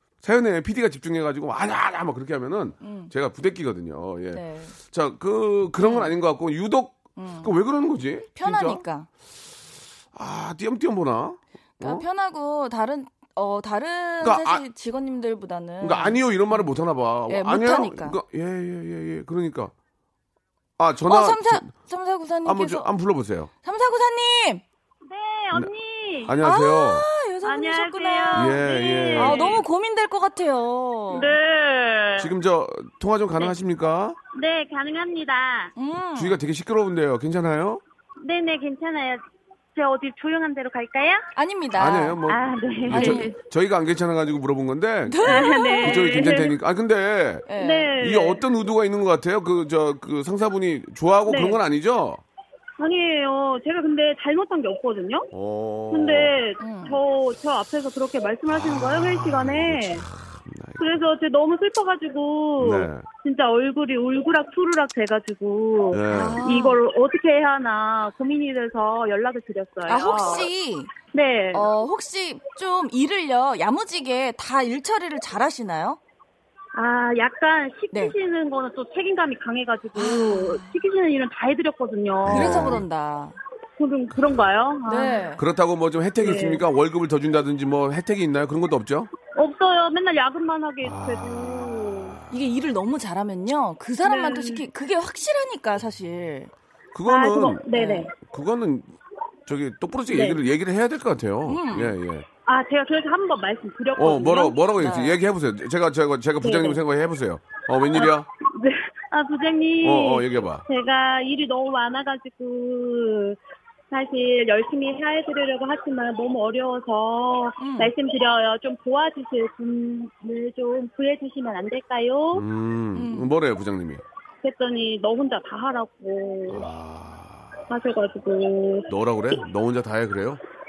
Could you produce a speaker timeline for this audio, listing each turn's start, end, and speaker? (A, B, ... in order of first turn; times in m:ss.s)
0:00.2-0:08.8 A
0:02.8-0:03.1 B
0:04.3-0:04.8 B
0:05.8-0:06.1 B
0:07.2-0:07.6 B
0:08.4-0:09.1 B
0:10.1-0:12.0 A
0:11.8-0:16.7 B
0:14.2-0:14.6 A
0:15.8-0:19.7 A
0:17.3-0:18.2 B
0:20.8-0:21.7 A
0:21.1-0:22.9 B
0:22.4-0:23.5 A
0:23.6-0:24.6 B
0:25.0-0:26.4 C
0:26.2-0:27.1 A
0:26.4-0:31.4 B
0:27.4-0:29.6 C
0:28.3-0:29.5 A
0:31.1-0:32.3 C
0:32.2-0:34.2 A
0:34.3-0:35.7 C
0:35.8-0:36.4 B
0:36.1-0:37.8 A
0:38.2-0:39.2 C
0:39.8-0:41.2 C
0:41.4-0:42.2 B
0:41.8-0:52.2 A
0:42.2-0:43.4 C
0:42.9-0:43.3 B
0:45.1-0:46.4 B
0:45.2-0:46.5 C
0:47.5-0:48.0 B
0:47.6-0:48.4 C
0:51.3-0:51.6 C
0:52.8-0:55.3 C
0:55.3-0:56.3 A
0:55.9-1:00.1 C
0:56.6-0:57.0 B
0:58.5-1:01.0 A
1:00.8-1:10.5 C
1:02.6-1:03.1 A
1:05.9-1:06.4 A
1:06.1-1:06.8 B
1:09.9-1:10.9 B
1:11.1-1:11.7 C
1:11.5-1:16.0 B
1:16.8-1:22.8 C
1:19.9-1:20.8 B
1:22.2-1:22.8 A
1:22.2-1:23.4 B
1:23.8-1:25.4 C
1:24.9-1:25.4 B
1:25.4-1:29.1 A
1:26.2-1:26.6 C
1:29.3-1:32.2 C
1:30.8-1:32.4 A
1:32.3-1:36.5 B
1:34.0-1:34.6 C
1:36.9-1:37.6 A
1:37.1-1:38.2 C
1:37.7-1:38.1 B
1:38.2-1:38.9 A
1:39.5-1:42.3 A
1:40.1-1:40.4 C
1:41.5-1:42.0 B
1:42.4-1:44.6 C
1:44.0-1:48.3 A
1:44.8-1:45.2 B
1:46.4-1:46.8 C
1:47.9-1:53.4 C
1:49.8-1:50.6 A
1:53.9-2:02.4 C
1:57.6-1:57.9 B
2:02.3-2:04.0 A
2:03.0-2:03.3 B
2:04.4-2:06.7 C
2:06.5-2:07.6 A
2:07.7-2:08.9 C
2:08.9-2:10.4 A